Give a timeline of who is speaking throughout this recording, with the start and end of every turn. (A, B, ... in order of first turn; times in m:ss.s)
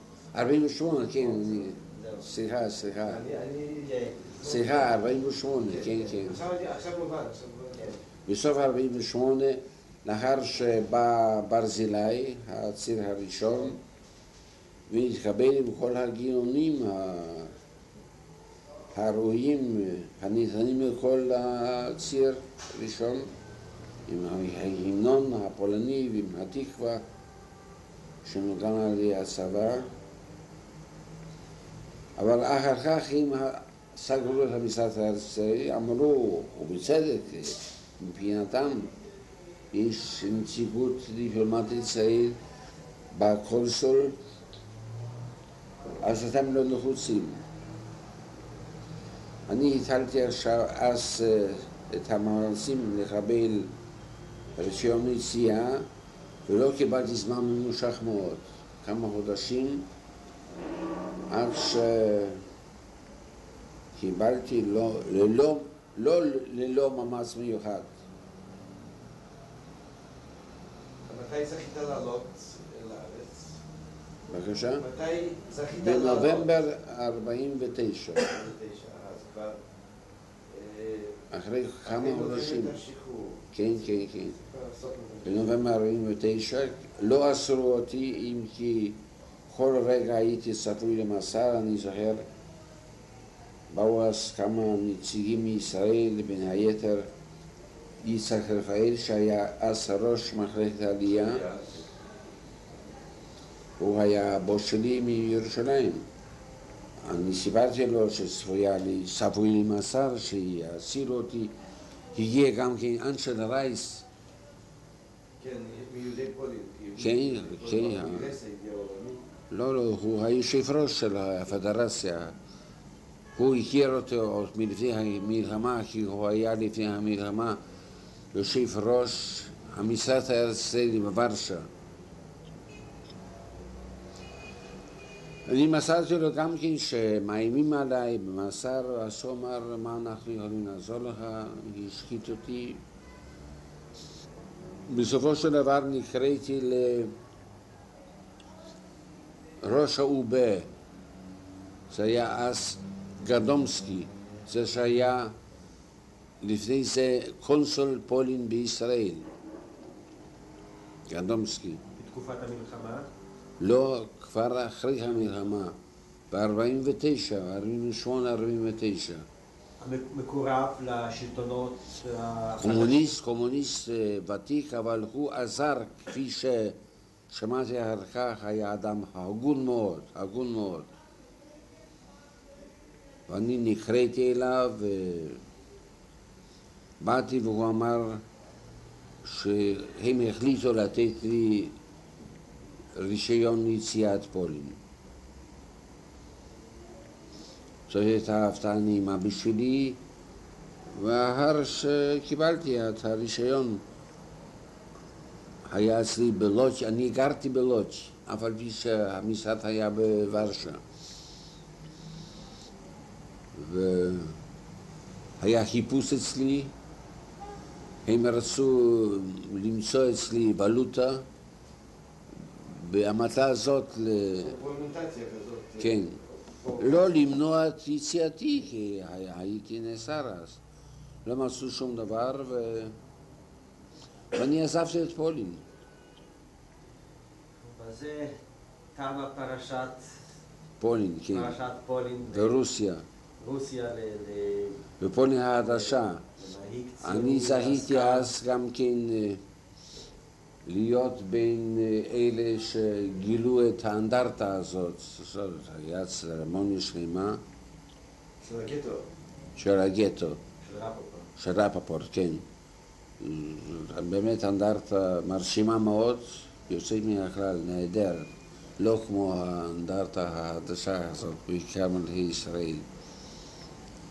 0:00.3-0:03.2 A
0:01.9-0:02.2 B
0:03.1-0:05.0 C
0:03.8-0:04.4 B
0:04.4-0:06.4 A
0:05.7-0:08.0 C
0:08.3-0:13.8 A
0:14.9-0:17.5 A
0:18.9-0:23.3 A
0:24.1-0:27.0 A
0:28.2-0:29.9 A
0:32.2-0:39.0 A
0:39.7-0:42.4 A
0:43.1-0:44.2 A
0:46.0-0:47.4 A
0:49.5-0:53.7 A
0:54.6-0:55.9 A
0:56.5-0:59.9 A
1:01.3-1:02.4 A
1:04.0-1:07.9 A
1:11.1-1:13.6 C
1:14.3-1:14.8 A
1:14.8-1:16.5 C
1:15.8-1:18.3 A
1:18.2-1:19.6 C
1:20.5-1:21.2 C
1:21.3-1:22.8 A
1:21.9-1:23.5 C
1:23.5-1:24.4 A
1:24.4-1:25.6 C
1:25.2-1:32.3 A
1:33.7-1:37.1 A
1:38.0-1:41.4 A
1:41.1-1:41.8 C
1:43.8-1:46.1 A
1:47.0-1:51.6 A
1:52.1-1:54.1 A
1:55.4-1:59.2 C
1:57.0-1:58.4 A
1:59.5-2:02.4 A
2:03.4-2:07.6 A
2:08.3-2:11.7 A
2:15.5-2:22.8 A
2:24.9-2:27.1 A
2:29.6-2:30.7 A
2:31.9-2:35.4 A
2:36.4-2:39.3 A
2:41.1-2:41.8 A
2:42.0-2:43.1 B
2:43.6-2:45.8 A
2:46.3-2:49.3 A
2:49.8-2:53.1 B
2:52.6-2:56.8 A
2:57.3-3:00.9 A
3:03.3-3:05.4 A
3:07.0-3:08.2 A
3:09.2-3:11.8 A
3:12.9-3:14.8 A
3:17.9-3:20.0 A
3:20.9-3:23.8 A
3:25.7-3:30.8 A
3:33.5-3:34.4 A
3:35.4-3:36.8 A
3:38.0-3:41.3 A
3:42.4-3:44.6 A
3:44.4-3:47.3 C
3:45.8-3:46.2 A
3:46.8-3:50.6 A
3:51.2-3:53.0 A
3:54.3-3:55.7 A
3:57.6-3:58.4 B
3:59.0-4:00.2 B
4:00.8-4:01.6 A
4:01.3-4:02.6 B
4:02.3-4:03.0 A
4:03.4-4:04.8 B
4:05.0-4:06.2 A
4:05.6-4:08.3 B
4:07.0-4:09.4 A
4:10.6-4:17.4 A
4:18.4-4:19.0 C
4:19.6-4:20.4 A
4:20.7-4:21.3 C
4:21.4-4:22.4 A
4:23.2-4:32.9 A